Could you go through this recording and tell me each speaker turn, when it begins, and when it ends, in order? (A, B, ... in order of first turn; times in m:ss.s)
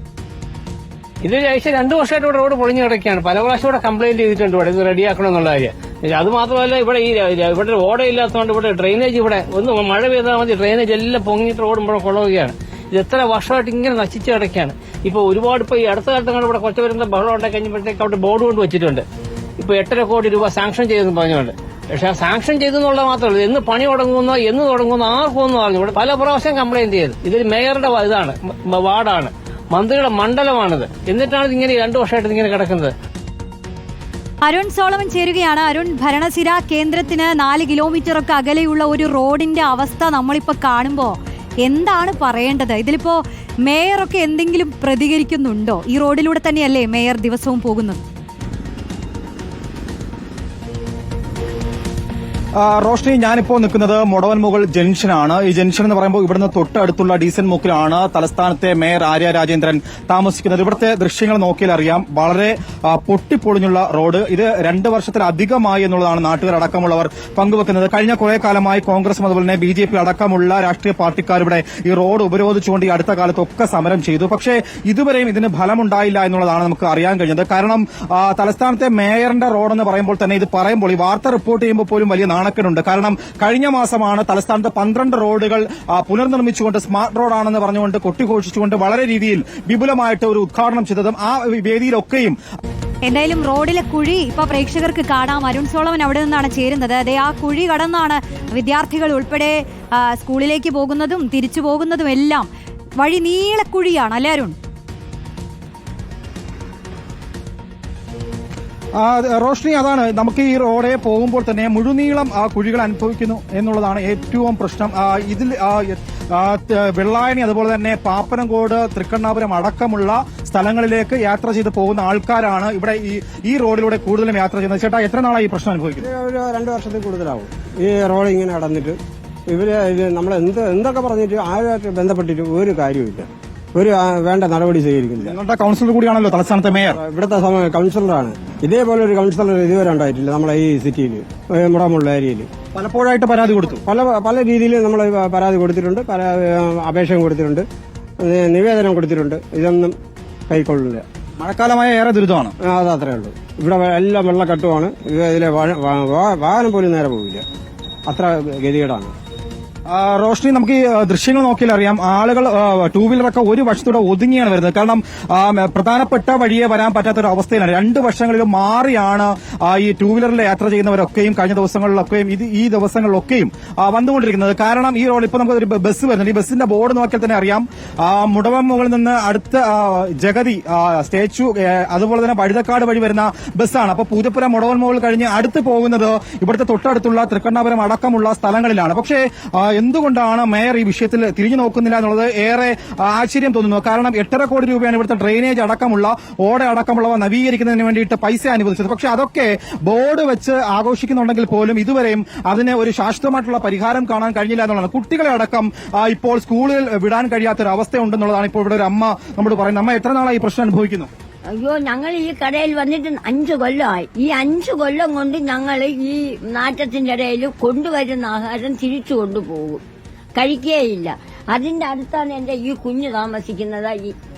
0:01.2-0:19.0 A
0:19.6-0:32.9 A
0:34.5-0:48.0 B
0:52.6-1:32.4 C
1:33.0-1:42.5 B
1:43.0-1:44.6 B
1:49.0-2:06.1 C
2:06.0-2:09.0 D
2:09.5-2:15.4 D
2:15.2-2:17.0 C
2:16.9-2:22.5 D
2:22.7-2:23.8 C
2:23.8-2:27.7 D
2:28.2-2:30.0 D
2:30.5-2:31.0 D
2:31.4-2:32.5 C
2:32.6-2:37.4 D
2:38.1-2:39.1 D
2:39.9-3:31.1 C
3:31.6-3:39.8 E
3:40.4-3:44.2 E